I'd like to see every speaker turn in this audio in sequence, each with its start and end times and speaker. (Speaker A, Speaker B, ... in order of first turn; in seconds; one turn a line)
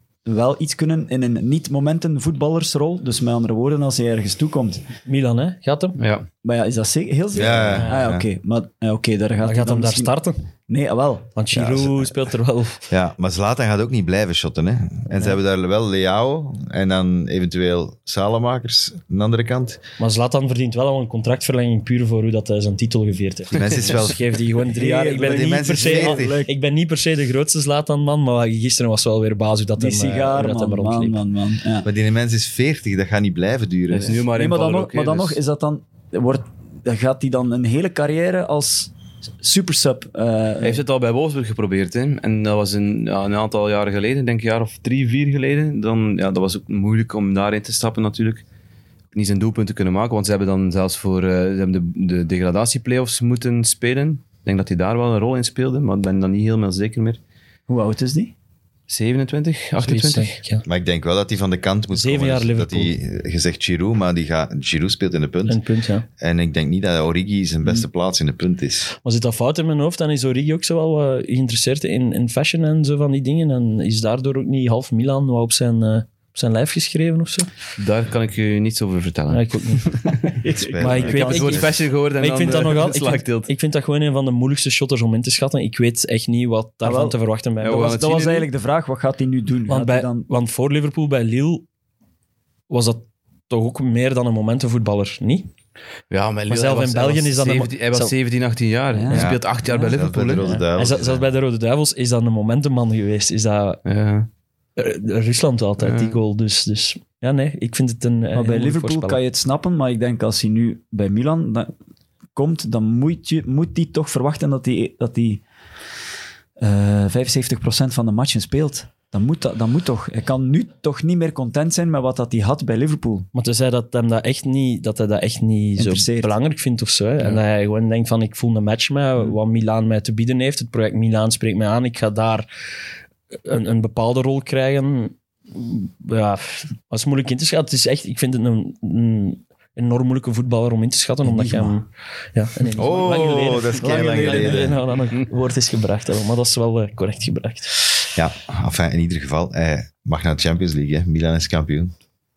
Speaker A: 0.2-4.8
Speaker B: 5.0-6.0
Speaker C: 6.0-6.3
Speaker A: 6.4-10.1
Speaker D: 7.3-8.3
Speaker B: 7.7-8.1
Speaker B: 9.4-10.4
Speaker A: 10.7-11.3
Speaker B: 11.3-12.8
Speaker D: 11.5-12.1
Speaker D: 12.9-19.8
Speaker B: 20.0-31.2
Speaker D: 23.5-24.2
Speaker A: 24.7-26.5
Speaker D: 25.2-26.4
Speaker A: 29.8-31.9
Speaker D: 31.8-34.2
Speaker C: 33.9-35.4
Speaker A: 34.3-40.8
Speaker C: 40.6-48.4
Speaker C: 49.1-57.2
Speaker A: 57.7-58.3
Speaker C: 58.9-60.4
Speaker B: 59.8-60.6
Speaker D: 60.6-65.6
Speaker B: 61.9-62.9
Speaker B: 65.5-66.1
Speaker D: 66.2-68.9
Speaker B: 69.0-77.5
Speaker C: 77.8-80.3
Speaker B: 79.3-80.2
Speaker A: 80.4-81.7
Speaker D: 80.4-81.6
Speaker B: 80.8-88.0
Speaker C: 81.1-83.5
Speaker A: 86.8-87.2
Speaker C: 87.6-88.5
Speaker A: 87.7-90.2
Speaker B: 89.7-91.7
Speaker B: 92.7-95.5
Speaker C: 96.1-100.5
Speaker B: 96.5-98.1
Speaker A: 98.9-99.3
Speaker D: 99.1-101.3
Speaker B: 100.4-103.8
Speaker C: 103.8-104.3
Speaker B: 104.8-109.2
Speaker C: 105.8-106.2
Speaker A: 108.3-111.7
Speaker A: 112.3-115.4
Speaker A: 116.6-123.3
Speaker B: 123.3-132.4
Speaker A: 125.8-126.3
Speaker B: 133.4-147.7
Speaker A: 141.2-141.8
Speaker D: 142.8-144.8
Speaker A: 143.8-144.7
Speaker D: 148.2-151.9